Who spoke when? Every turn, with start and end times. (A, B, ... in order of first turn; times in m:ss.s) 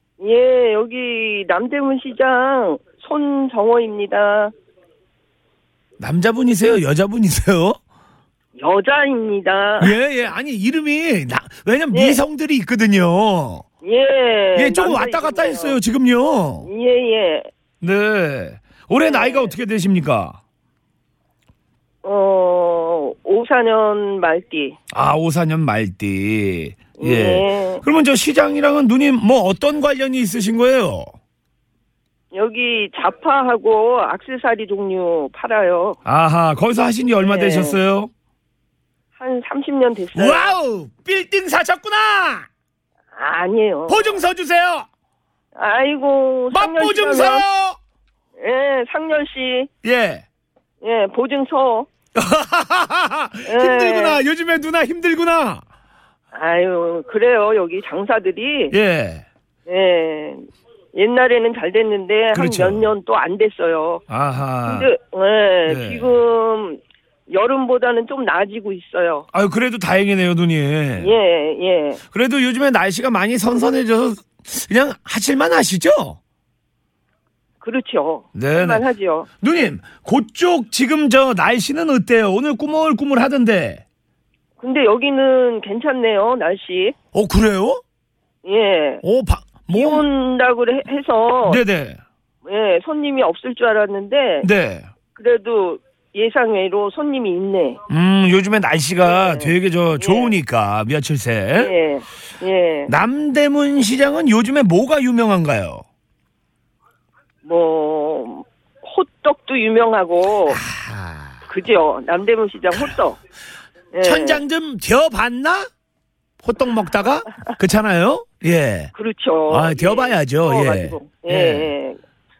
0:00.2-0:04.5 A
0:06.0-0:07.8 B
0:08.6-0:09.9 A
0:09.8-0:13.6 B
0:11.9-0:12.2 A
0:13.8-0:15.8 A
0:14.6-0:16.7 B
0:16.6-0:17.5 A
0:17.8-0:20.4 B
0:19.0-0:19.5 A
0:22.0-0:24.8 A
0:24.9-0:31.1 B
0:27.0-0:27.8 A
0:32.3-0:36.0 A
0:36.0-0:38.1 B
0:37.2-0:37.8 A
0:39.2-0:40.5 A
0:40.1-0:42.5 B
0:43.2-0:44.2 A
0:43.9-0:44.9 B
0:45.5-0:47.4 A
0:46.5-0:47.8 B
0:48.4-0:49.7 A
0:49.8-0:50.2 B
0:50.8-0:51.9 A
0:52.1-0:55.6 B
0:53.4-0:54.2 A
0:56.3-0:58.7 A
0:58.7-0:59.2 B
0:59.7-1:04.0 A
1:02.3-1:02.9 B
1:04.1-1:04.9 B
1:04.6-1:09.2 A
1:05.7-1:06.1 B
1:09.3-1:11.1 B
1:11.0-1:12.0 A
1:12.1-1:16.2 B
1:17.6-1:19.3 A
1:18.3-1:18.8 B
1:19.4-1:23.8 B
1:24.6-1:26.9 A
1:27.1-1:27.8 B
1:28.4-1:29.0 A
1:29.0-1:30.0 B
1:29.7-1:31.6 A
1:31.4-1:32.0 B
1:32.4-1:34.5 A
1:34.4-1:34.9 B
1:35.2-1:37.8 A
1:37.9-1:41.7 B
1:39.0-1:40.3 A
1:41.5-1:42.9 A
1:42.9-1:45.8 B
1:47.4-1:50.6 A
1:50.5-1:51.4 B
1:51.5-1:53.2 A
1:53.9-1:54.4 A
1:54.0-1:55.7 B
1:56.4-1:58.9 B
1:58.9-2:02.0 A
1:59.5-2:01.7 B